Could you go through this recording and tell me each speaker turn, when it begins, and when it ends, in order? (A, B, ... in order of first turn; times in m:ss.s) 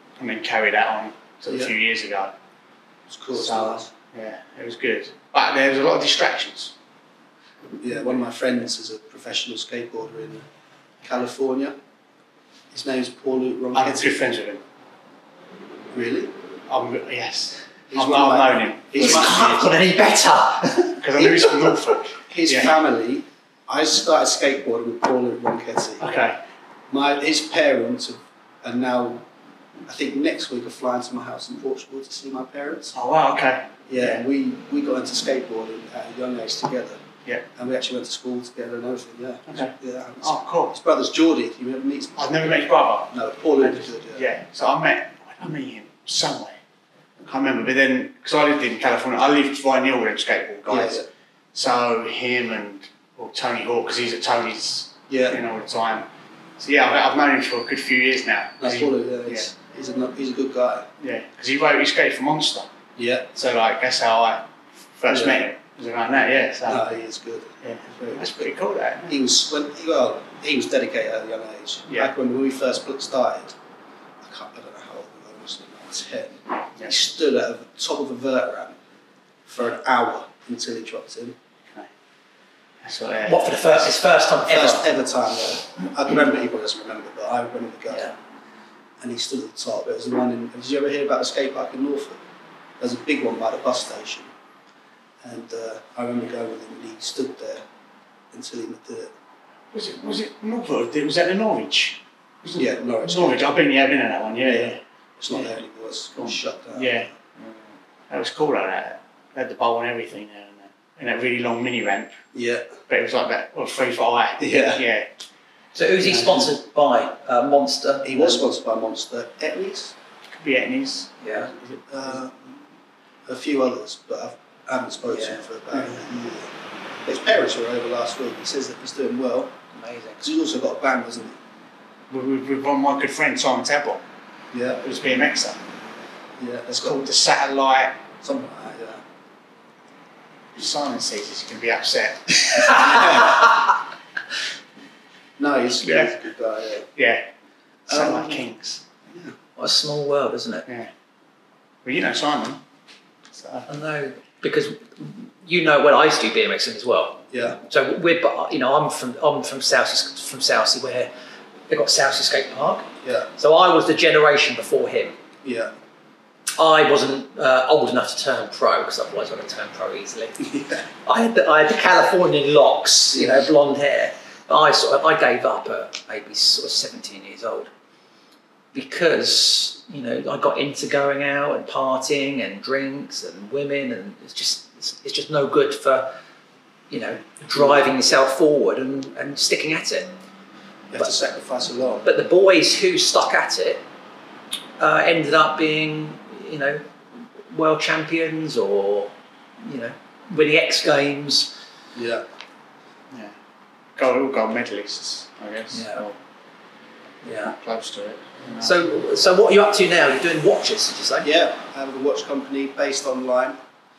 0:00.2-0:02.3 A
0:01.5-0:01.7 B
0:03.1-0:03.9 B
0:03.3-0:06.7 A
0:07.8-0:10.4 B
0:11.0-0:11.8 B
0:12.7-0:14.2 B
0:13.7-0:14.6 A
0:15.9-0:16.3 B
0:16.7-0:19.5 A
0:17.9-0:19.7 B
0:19.0-0:21.4 C
0:21.0-0:22.8 A
0:22.3-0:26.0 B
0:26.0-0:26.4 A
0:26.9-0:29.2 B
0:29.9-0:32.9 B
0:32.9-0:34.3 A
0:33.9-0:37.0 B
0:37.5-0:44.3 B
0:39.5-0:40.8 A
0:42.2-0:46.6 A
0:47.2-0:59.5 A
0:50.7-0:51.1 B
0:55.1-0:55.4 B
0:58.6-1:00.9 B
1:01.0-1:02.7 A
1:03.0-1:03.3 B
1:03.3-1:06.8 A
1:05.1-1:05.5 B
1:06.6-1:08.5 B
1:07.6-1:09.2 A
1:09.0-1:13.5 B
1:14.2-1:18.8 B
1:19.4-1:21.4 B
1:22.8-1:24.0 A
1:23.2-1:24.9 C
1:24.4-1:28.2 B
1:27.9-1:28.1 C
1:29.0-1:32.2 B
1:32.8-1:34.3 B
1:35.2-1:37.6 B
1:38.3-1:39.1 B
1:39.7-1:45.6 A
1:42.6-1:43.5 B
1:44.4-1:47.1 B
1:46.1-1:52.1 A
1:52.3-1:52.8 B
1:52.9-1:55.1 A
1:54.4-1:54.8 B
1:55.7-1:58.5 C
1:56.0-1:56.5 A
1:58.0-1:59.9 B
2:00.4-2:02.2 A
2:01.2-2:01.5 C
2:01.9-2:02.6 B
2:03.2-2:06.5 B
2:05.1-2:05.4 C
2:07.0-2:09.5 B
2:09.7-2:10.2 C
2:10.2-2:11.4 B
2:12.1-2:14.0 A
2:14.5-2:14.8 B
2:14.8-2:15.6 A
2:16.4-2:17.1 B
2:16.7-2:18.0 A
2:18.2-2:19.0 B
2:20.6-2:23.5 A
2:22.8-2:23.4 B
2:25.4-2:26.9 B
2:25.8-2:26.1 A
2:27.0-2:27.3 A
2:27.9-2:28.4 B
2:27.9-2:28.8 A
2:29.1-2:29.3 B
2:29.6-2:30.6 C
2:31.8-2:32.6 A
2:33.3-2:33.7 A
2:33.7-2:41.1 C
2:37.3-2:37.6 B
2:41.7-2:45.2 C
2:43.0-2:43.3 B
2:45.4-2:45.7 B
2:46.6-2:50.4 C
2:50.4-2:50.8 B
2:51.0-2:57.7 C
2:53.1-2:53.5 B
2:58.7-3:06.1 C
3:06.9-3:10.1 C
3:07.5-3:07.9 B
3:10.9-3:12.1 B
3:12.0-3:13.8 C
3:14.8-3:16.8 C
3:17.4-3:21.5 C
3:21.9-3:22.2 B
3:24.0-3:26.2 A
3:25.7-3:26.0 C
3:27.2-3:27.5 C
3:27.4-3:28.8 A
3:28.6-3:31.3 C
3:31.2-3:33.6 B